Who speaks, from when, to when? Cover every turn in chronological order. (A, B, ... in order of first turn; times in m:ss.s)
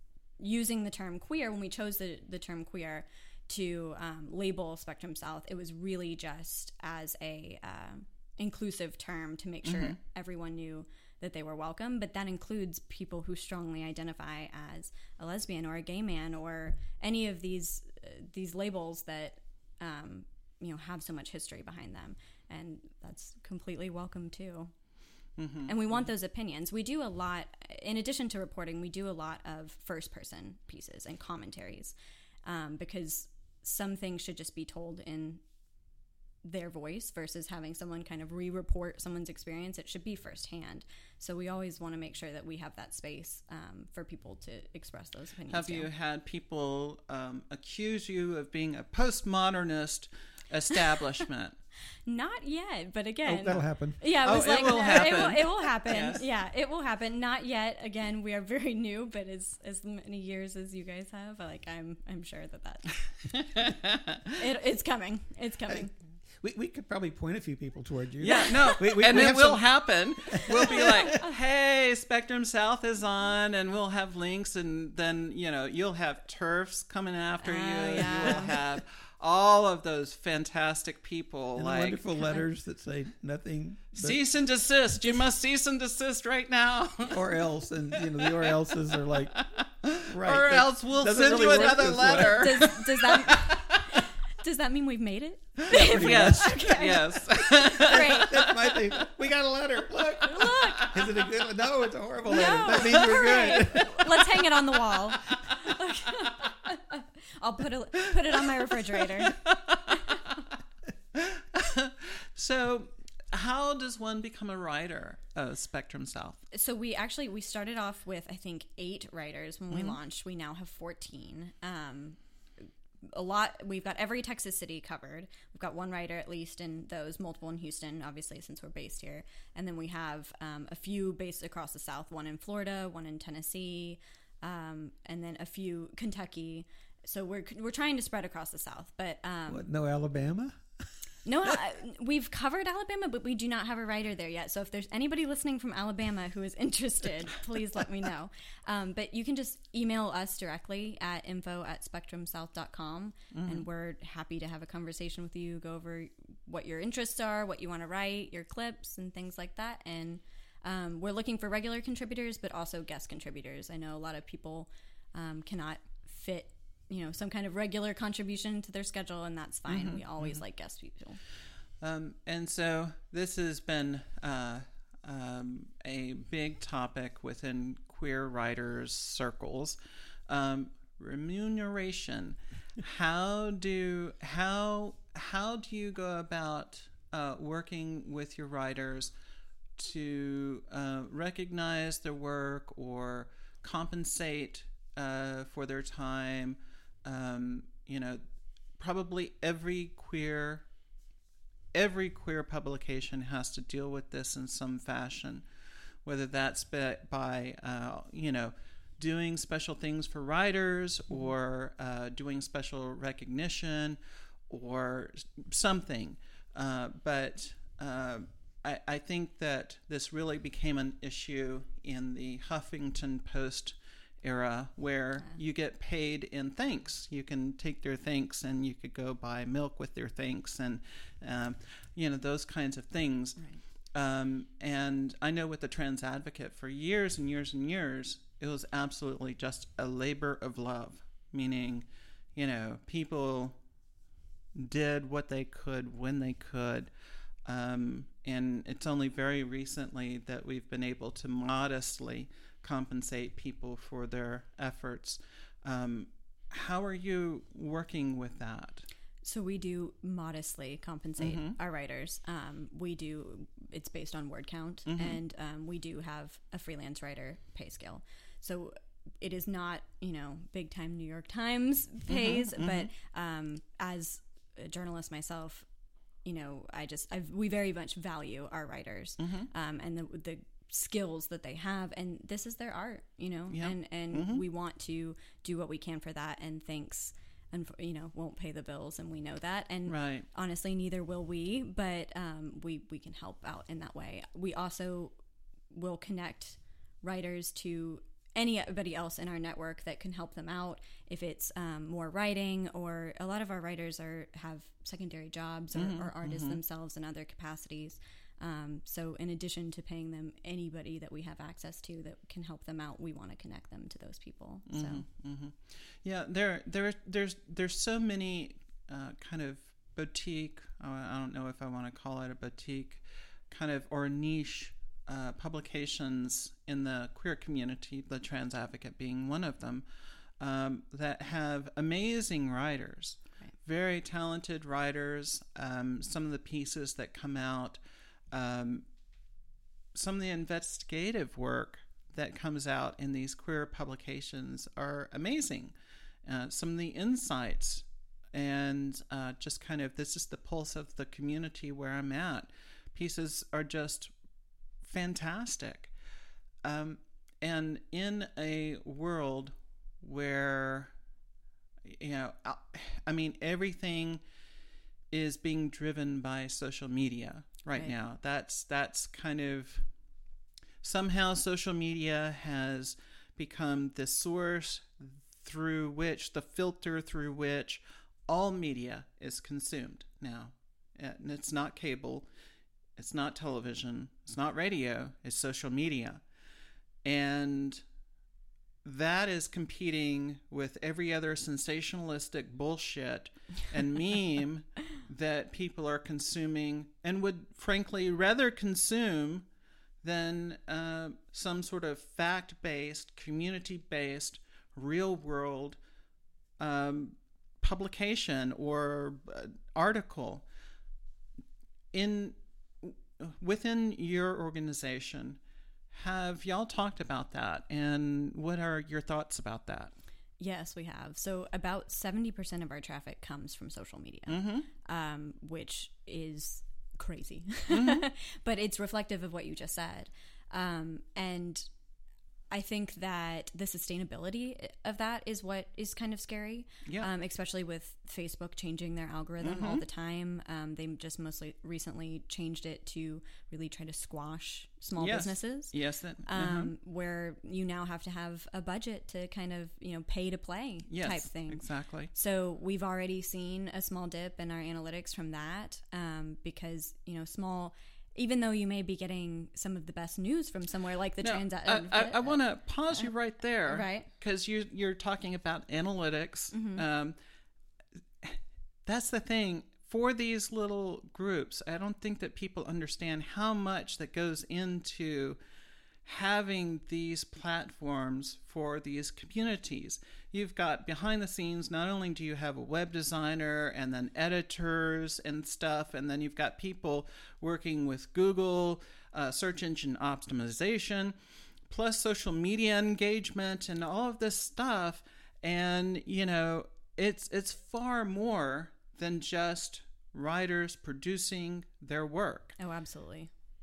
0:00.4-0:24.7 A
0:09.6-0:10.0 B
0:25.4-0:26.1 B
0:25.7-0:35.4 A
0:36.4-0:45.9 A
0:45.5-0:51.6 B
0:52.1-1:02.9 A
0:53.2-0:54.7 C
0:54.2-0:56.2 B
1:03.5-1:04.3 B
1:04.4-1:05.9 A
1:06.4-1:09.6 C
1:08.2-1:22.0 B
1:08.4-1:08.8 A
1:10.3-1:11.2 C
1:17.4-1:18.5 A
1:18.2-1:18.5 C
1:21.6-1:24.2 C
1:22.2-1:22.4 A
1:23.9-1:27.3 B
1:27.1-1:29.4 C
1:28.0-1:33.9 B
1:30.0-1:32.6 C
1:31.4-1:38.3 A
1:35.7-1:38.8 B
1:35.7-1:36.6 C
1:37.8-1:43.9 C
1:40.2-1:41.0 A
1:42.2-1:49.4 A
1:43.1-1:44.0 B
1:49.3-1:50.2 B
1:49.9-1:50.2 A
1:51.1-1:56.4 B
1:56.5-2:02.2 A
1:59.7-2:00.0 B
2:03.1-2:19.7 A
2:19.5-2:20.6 C
2:21.2-2:51.2 A
2:33.3-2:33.6 B
2:49.7-2:50.4 B
2:51.8-2:59.8 B
3:00.3-3:09.1 B
3:09.8-3:18.2 B
3:18.8-3:20.6 B
3:21.7-3:25.4 B
3:26.0-3:53.4 B
3:53.9-4:03.6 B
4:04.5-4:06.9 B
4:07.4-4:18.8 B
4:19.2-4:35.6 A
4:21.2-4:21.5 B
4:24.9-4:25.2 B
4:32.1-4:32.9 B
4:36.2-4:55.1 A
4:39.2-4:39.5 B
4:43.5-4:44.4 B
4:49.9-4:50.2 B
4:55.7-5:15.0 A
5:05.7-5:06.6 B
5:14.7-5:29.8 B
5:30.4-5:37.8 B
5:38.3-5:38.8 B
5:39.9-5:45.7 B
5:46.2-5:54.1 B
5:54.8-5:55.9 B
5:56.6-6:00.9 B
6:01.9-6:04.2 B
6:05.1-6:09.8 B
6:10.8-6:22.2 B
6:23.0-6:26.2 B
6:27.0-6:27.8 B
6:28.8-6:39.4 B
6:40.0-6:45.8 B
6:46.6-6:50.4 B
6:51.9-6:55.4 B
6:55.9-6:59.9 B
7:00.4-7:11.7 A
7:04.3-7:04.7 B
7:07.7-7:08.0 B
7:12.5-7:42.4 A
7:19.4-7:19.8 B
7:25.0-7:26.7 B
7:30.9-7:32.1 B
7:41.2-7:47.1 B
7:43.7-7:44.1 A
7:46.5-7:46.8 A
7:48.2-7:55.4 B
7:56.0-8:11.1 B
8:11.7-8:22.6 B
8:22.6-8:23.3 A